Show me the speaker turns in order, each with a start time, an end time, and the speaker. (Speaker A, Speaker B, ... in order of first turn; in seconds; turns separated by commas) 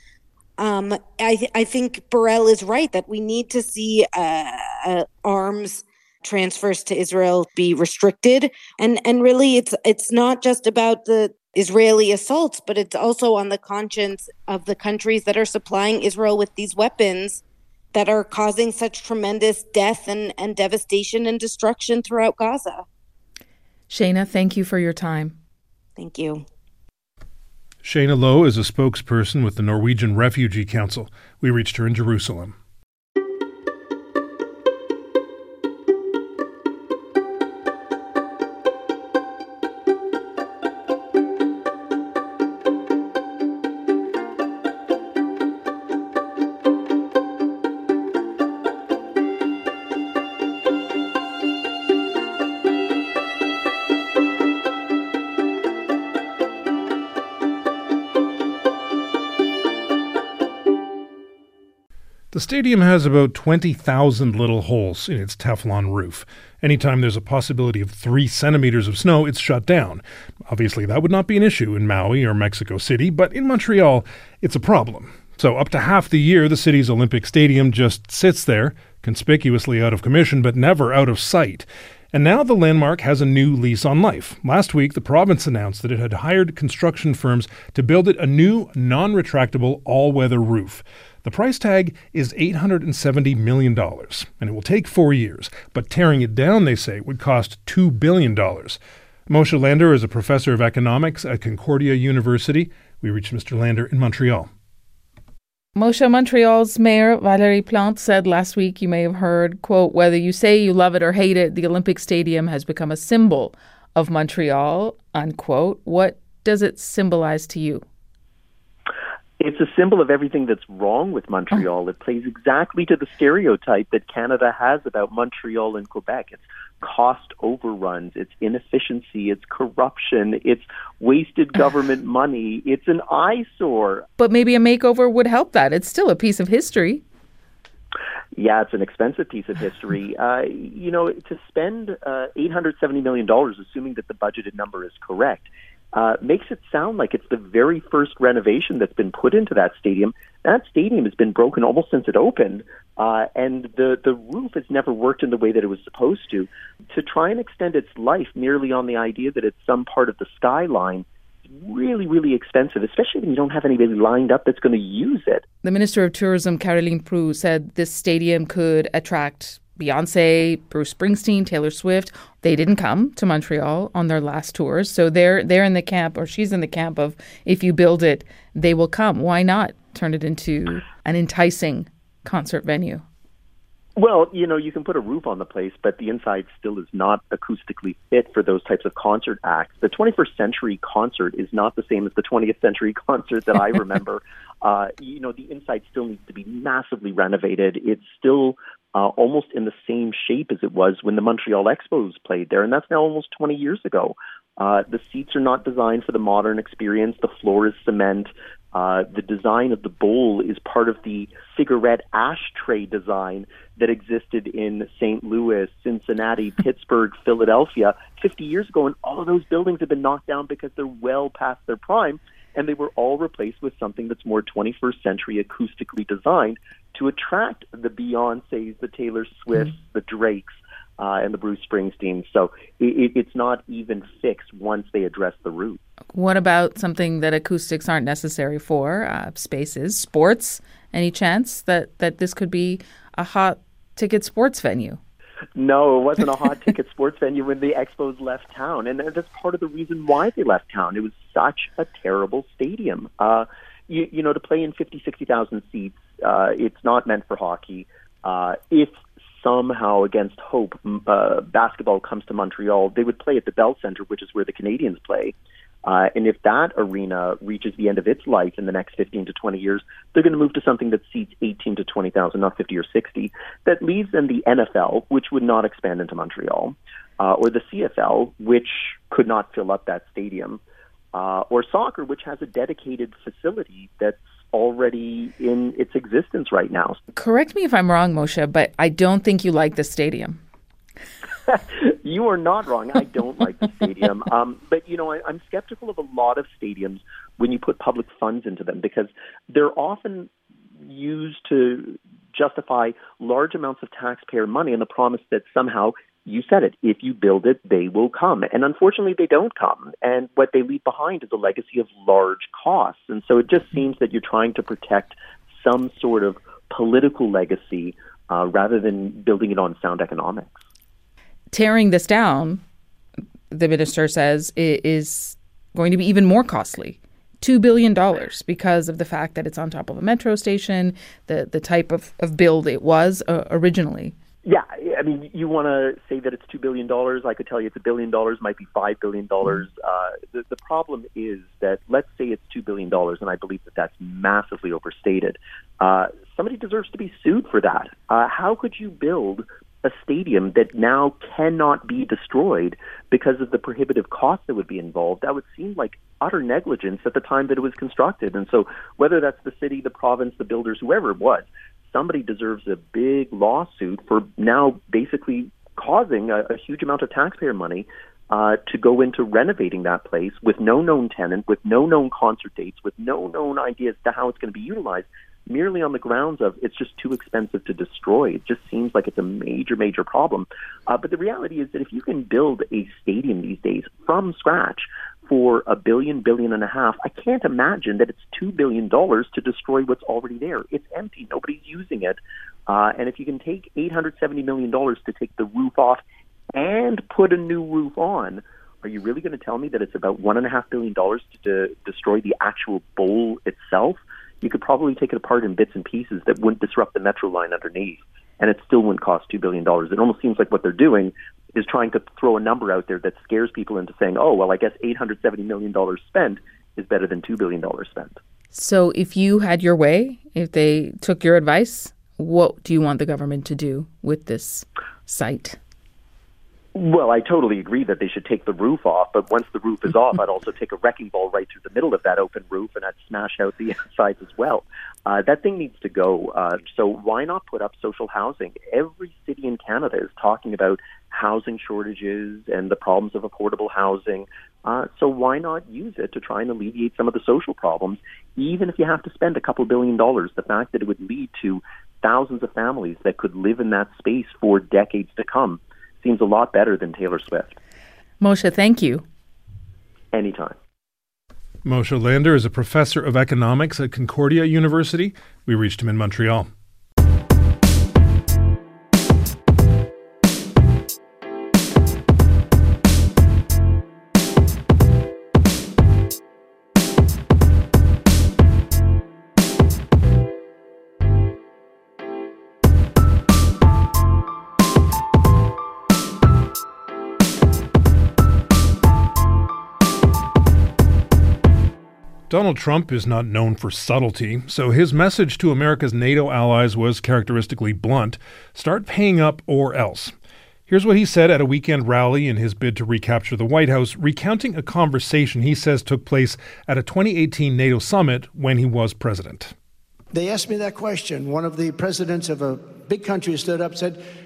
Speaker A: 0.6-17.4, Speaker A: 17.9-22.9, Speaker B: 23.9-25.4, Speaker A: 26.0-26.4, Speaker C: 27.8-32.5, Speaker C: 62.3-104.5, Speaker B: 105.8-117.8, Speaker D: 119.4-134.1, Speaker B: 134.2-137.0, Speaker D: 138.3-165.4, Speaker B: 165.6-183.0, Speaker D: 184.0-235.8, Speaker B: 236.1-245.0, Speaker D: 245.6-280.6, Speaker D: 281.1-287.0, Speaker B: 287.1-290.4, Speaker D: 291.5-300.3, Speaker D: 300.9-320.6, Speaker B: 321.5-322.6, Speaker B: 323.5-334.2, Speaker D: 334.4-396.0, Speaker D: 396.5-418.2, Speaker B: 418.5-425.6, Speaker D: 426.8-457.6, Speaker B: 458.2-459.0, Speaker D: 460.1-460.6, Speaker C: 461.6-466.5, Speaker C: 492.3-500.1, Speaker C: 500.7-509.5, Speaker E: 510.1-514.0